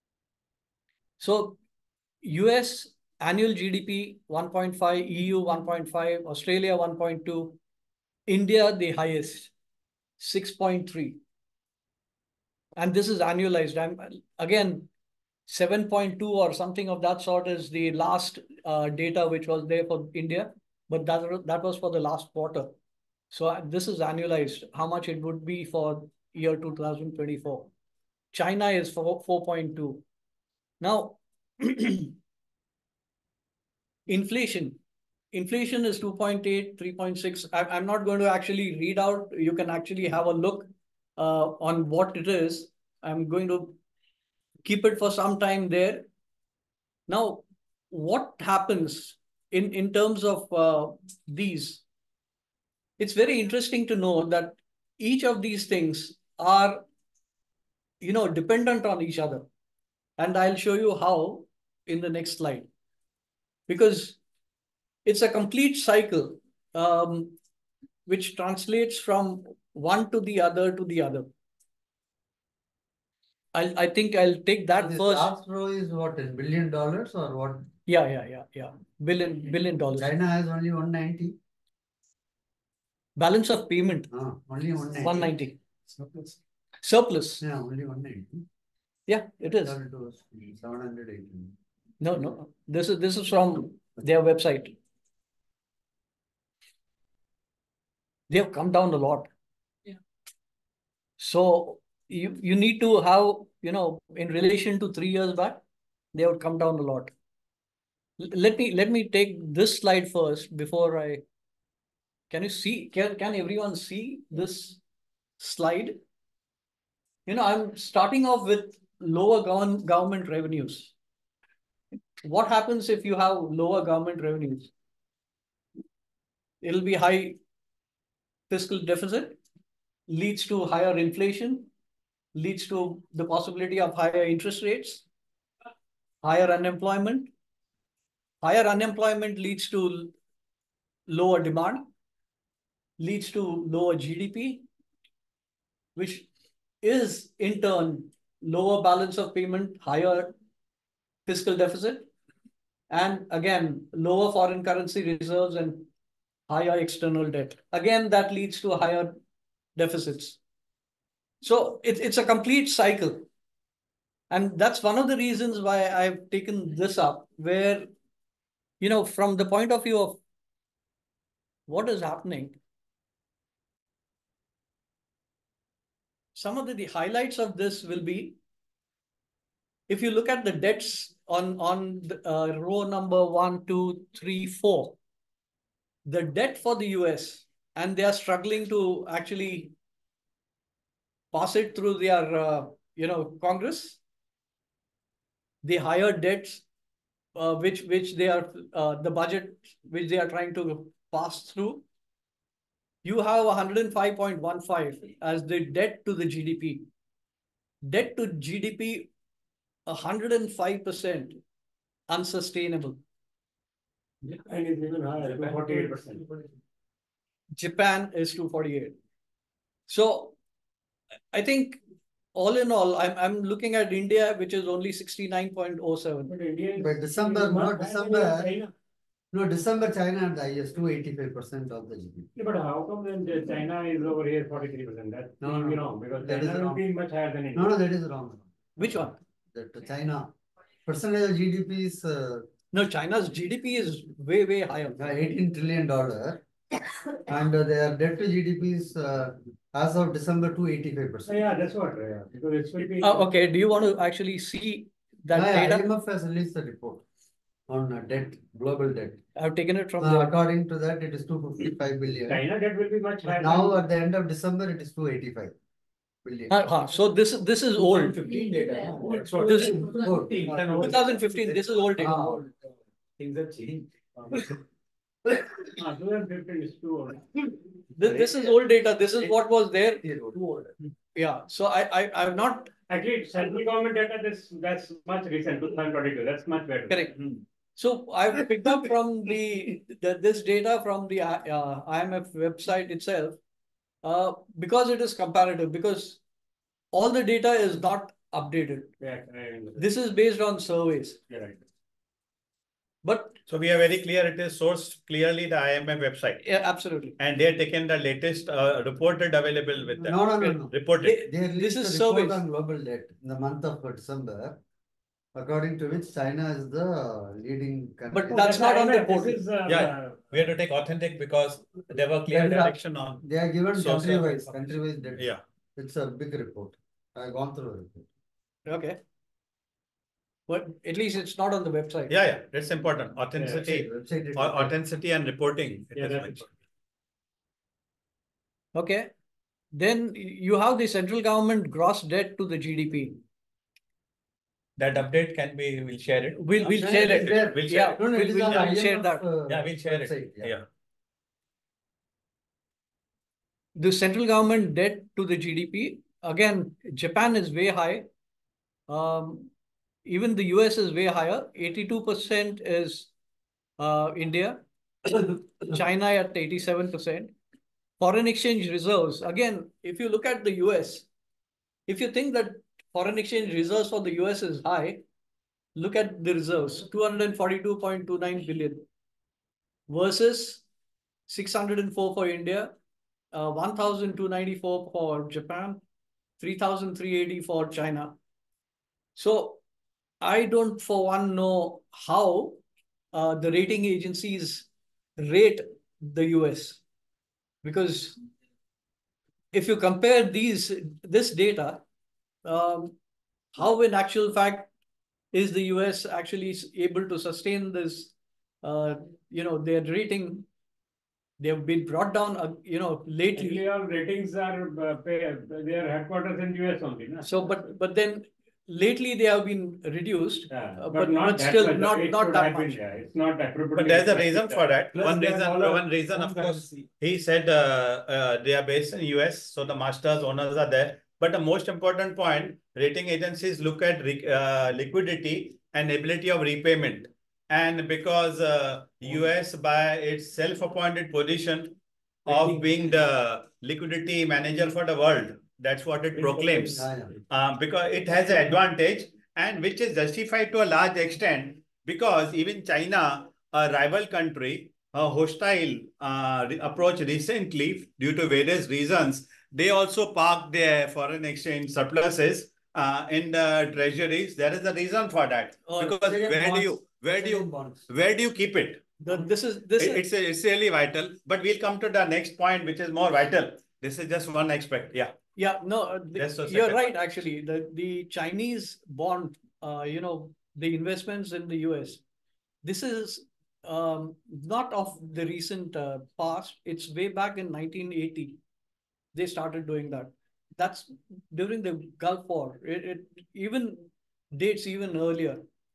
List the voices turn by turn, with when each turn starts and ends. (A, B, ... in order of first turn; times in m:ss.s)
0:01.2-0:01.6 A
0:02.2-0:07.6 A
0:08.3-0:09.5 A
0:10.2-0:11.2 A
0:12.8-0:14.9 A
0:15.5-0:22.7 A
0:23.3-0:27.7 A
0:28.3-0:30.0 A
0:30.8-0:32.1 A
0:34.1-0:34.8 A
0:35.3-0:43.8 A
0:44.6-0:46.1 A
0:47.1-0:51.8 A
0:53.0-0:56.8 A
0:58.0-0:59.4 A
1:00.2-1:02.7 A
1:03.7-1:04.2 A
1:05.0-1:07.4 A
1:08.1-1:11.3 A
1:13.5-1:15.3 A
1:14.8-1:17.7 B
1:17.9-1:20.1 A
1:20.0-1:21.4 B
1:23.2-1:24.1 A
1:24.1-1:25.3 B
1:25.0-1:25.6 A
1:25.9-1:26.4 B
1:26.8-1:27.4 A
1:27.4-1:28.4 B
1:29.1-1:29.8 A
1:29.6-1:31.5 B
1:32.0-1:34.7 A
1:38.3-1:39.3 A
1:41.2-1:45.6 A
1:46.1-1:47.1 A
1:48.2-1:51.2 A
1:52.3-1:54.8 A
1:55.4-1:56.0 A
1:57.2-2:00.9 A
2:02.2-2:04.7 A
2:06.6-2:07.4 A
2:08.5-2:09.4 A
2:10.1-2:11.7 A
2:12.3-2:15.0 A
2:16.2-2:17.3 A
2:18.4-2:20.1 A
2:21.1-2:21.9 A
2:23.0-2:24.6 A
2:25.9-2:26.3 A
2:26.8-2:30.3 A
2:31.2-2:32.1 A
2:32.9-2:35.9 A
2:36.5-2:39.2 A
2:39.8-2:40.4 A
2:41.4-2:43.2 A
2:44.3-2:47.9 A
2:48.8-2:50.2 A
2:51.7-2:52.6 A
2:56.3-2:58.4 A
2:59.9-3:05.0 A
3:06.0-3:09.7 A
3:11.3-3:14.0 A
3:15.6-3:16.6 A
3:17.3-3:21.8 A
3:23.0-3:26.9 A
3:27.8-3:29.1 A
3:29.8-3:31.4 A
3:32.1-3:33.0 A
3:34.2-3:36.3 C
3:37.6-3:39.0 A
3:39.9-3:40.4 A
3:41.3-3:41.8 A
3:42.3-3:46.3 A
3:46.3-3:48.7 C
3:46.8-3:48.5 B
3:49.3-3:52.3 B
3:52.4-3:57.8 C
3:55.4-3:56.8 B
3:57.5-3:58.5 B
3:58.8-3:59.2 A
3:59.5-4:00.3 B
4:00.8-4:02.5 B
4:02.7-4:05.0 A
4:05.0-4:06.4 B
4:07.2-4:11.4 B
4:11.2-4:13.2 C
4:13.0-4:15.8 A
4:15.3-4:17.0 B
4:17.7-4:19.2 B
4:19.4-4:20.3 A
4:20.0-4:22.4 B
4:22.3-4:23.8 C
4:23.3-4:25.5 B
4:26.2-4:26.6 B
4:26.5-4:28.3 A
4:28.2-4:31.1 B
4:28.9-4:31.1 C
4:29.4-4:29.9 A
4:30.8-4:32.5 A
4:32.0-4:32.4 B
4:33.2-4:34.4 C
4:35.6-4:37.5 C
4:37.9-4:40.0 A
4:38.0-4:38.4 B
4:40.0-4:40.7 B
4:41.1-4:42.7 A
4:42.9-4:47.1 C
4:46.9-4:47.2 A
4:47.8-4:53.4 A
4:54.0-4:56.2 A
4:56.9-4:58.9 A
4:59.0-4:59.9 C
4:59.8-5:01.2 A
5:01.3-5:01.6 C
5:03.0-5:03.4 A
5:03.5-5:06.4 D
5:06.4-5:07.2 A
5:07.2-5:11.2 D
5:10.0-5:14.6 B
5:11.0-5:12.4 A
5:15.3-5:18.6 B
5:18.1-5:19.4 A
5:18.3-5:20.3 C
5:19.7-5:25.4 D
5:22.3-5:28.0 B
5:28.6-5:29.0 A
5:30.5-5:32.1 A
5:32.1-5:36.5 D
5:33.6-5:34.7 B
5:36.0-5:36.4 C
5:38.7-5:39.1 A
5:39.7-5:43.2 A
5:44.8-5:48.8 D
5:46.4-5:49.2 A
5:46.6-5:50.5 B
5:49.5-5:50.6 D
5:53.8-5:58.1 A
5:58.9-5:59.5 A
6:00.0-6:03.1 A
6:03.8-6:04.6 A
6:05.2-6:07.3 A
6:08.0-6:11.1 A
6:11.9-6:15.0 A
6:15.7-6:18.8 A
6:19.9-6:20.6 A
6:21.3-6:22.7 A
6:23.3-6:25.8 A
6:26.4-6:28.2 A
6:29.2-6:29.6 A
6:30.2-6:32.6 A
6:33.1-6:36.8 A
6:37.6-6:38.2 A
6:39.5-6:41.8 A
6:42.4-6:42.9 A
6:43.5-6:44.7 A
6:45.3-6:50.4 A
6:51.4-6:53.6 A
6:53.4-6:57.3 C
6:57.2-7:02.8 A
7:00.5-7:06.8 C
7:03.7-7:48.8 D
7:26.2-7:26.9 C
7:26.7-7:27.1 B
7:45.7-7:45.9 A
7:46.0-7:47.9 B
7:49.0-7:50.0 A
7:49.8-7:55.2 D
7:55.4-8:02.0 A
7:56.1-7:56.8 D
8:02.6-8:08.4 A
8:09.1-8:15.4 A